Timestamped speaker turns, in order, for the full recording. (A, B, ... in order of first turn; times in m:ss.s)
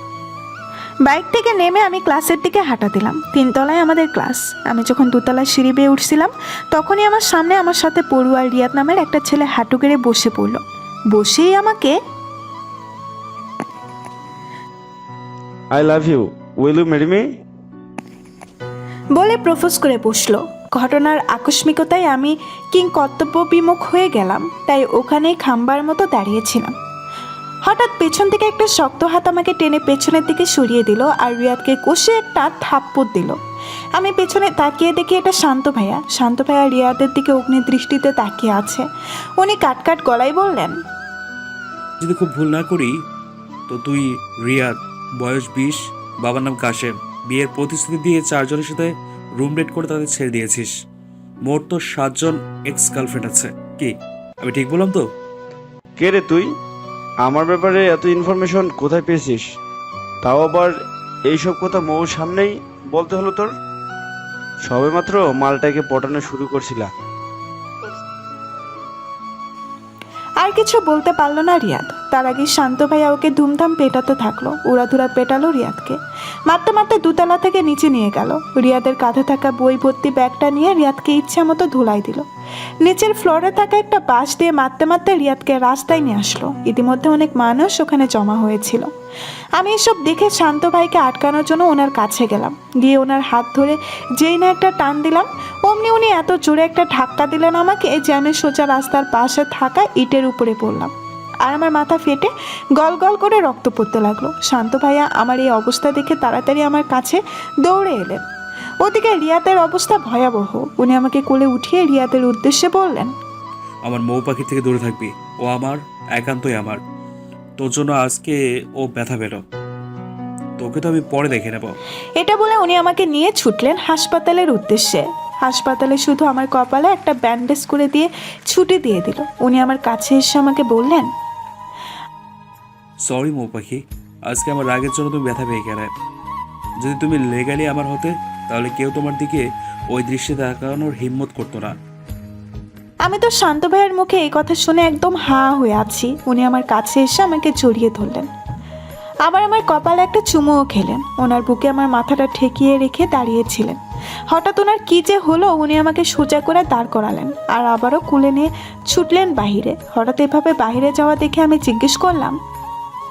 0:01.0-0:11.9 A
0:15.7-0:17.3 B
0:19.1-0:26.7 A
0:27.6-0:33.4 A
0:34.0-0:38.8 A
0:39.4-0:40.8 A
0:42.0-0:42.9 C
0:43.7-0:50.7 C
0:51.4-0:55.0 C
0:56.0-0:56.5 B
0:57.2-0:59.5 B
1:00.2-1:00.7 B
1:01.3-1:03.5 B
1:04.7-1:06.9 B
1:10.4-1:22.2 A
1:22.8-1:28.9 A
1:29.6-1:40.9 A
1:41.4-1:48.2 A
1:48.8-1:53.1 A
1:53.8-1:56.8 C
1:57.6-1:59.4 C
2:00.6-2:01.8 C
2:02.2-2:11.1 A
2:13.1-2:15.9 C
2:16.8-2:21.7 C
2:23.0-2:28.3 A
2:29.2-2:33.8 A
2:34.3-2:42.4 A